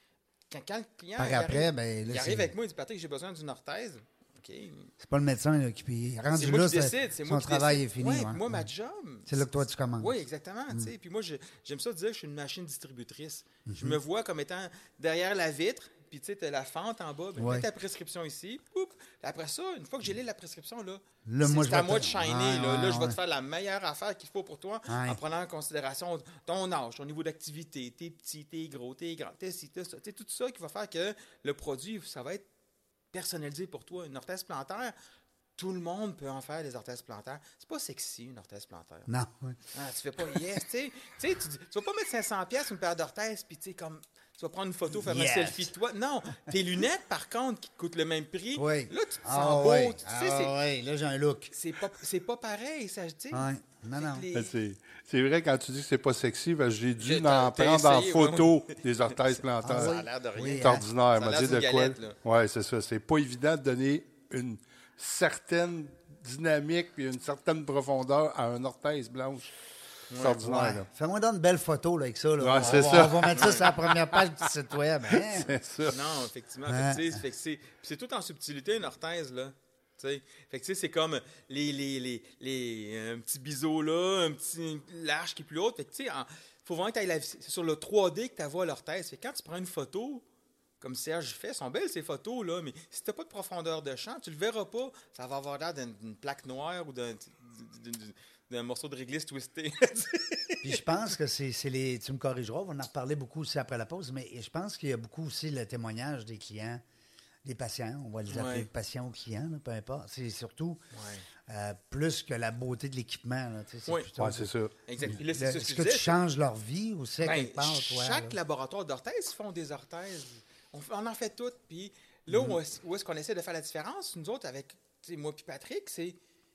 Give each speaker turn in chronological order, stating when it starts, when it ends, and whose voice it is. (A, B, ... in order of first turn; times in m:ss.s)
0:00.5-0:04.9 A
0:01.2-0:02.5 B
0:05.0-0:08.7 B
0:06.3-0:32.4 A
0:09.3-0:10.1 B
0:13.7-0:14.0 B
0:17.4-0:17.7 B
0:21.2-0:23.2 B
0:24.9-0:25.2 B
0:33.1-0:34.9 A
0:35.6-0:39.1 A
0:39.1-0:39.6 B
0:39.7-0:50.6 A
0:40.3-0:40.6 B
0:44.9-0:45.7 B
0:48.5-0:51.5 B
0:51.5-0:54.5 A
0:53.3-0:54.2 B
0:54.3-1:09.5 C
0:57.0-1:02.2 A
0:59.6-1:00.8 B
1:10.1-1:10.4 A
1:10.2-1:10.8 C
1:10.4-1:15.5 B
1:12.4-1:13.9 C
1:12.6-1:13.7 A
1:15.1-1:16.0 C
1:15.9-1:30.2 A
1:16.7-1:17.2 B
1:30.8-1:40.8 A
1:40.6-1:46.8 B
1:47.4-1:50.8 B
1:48.3-1:48.7 A
1:50.9-1:51.2 A
1:51.4-1:58.4 B
1:54.2-1:54.7 C
1:54.8-1:56.2 A
1:57.2-2:06.2 A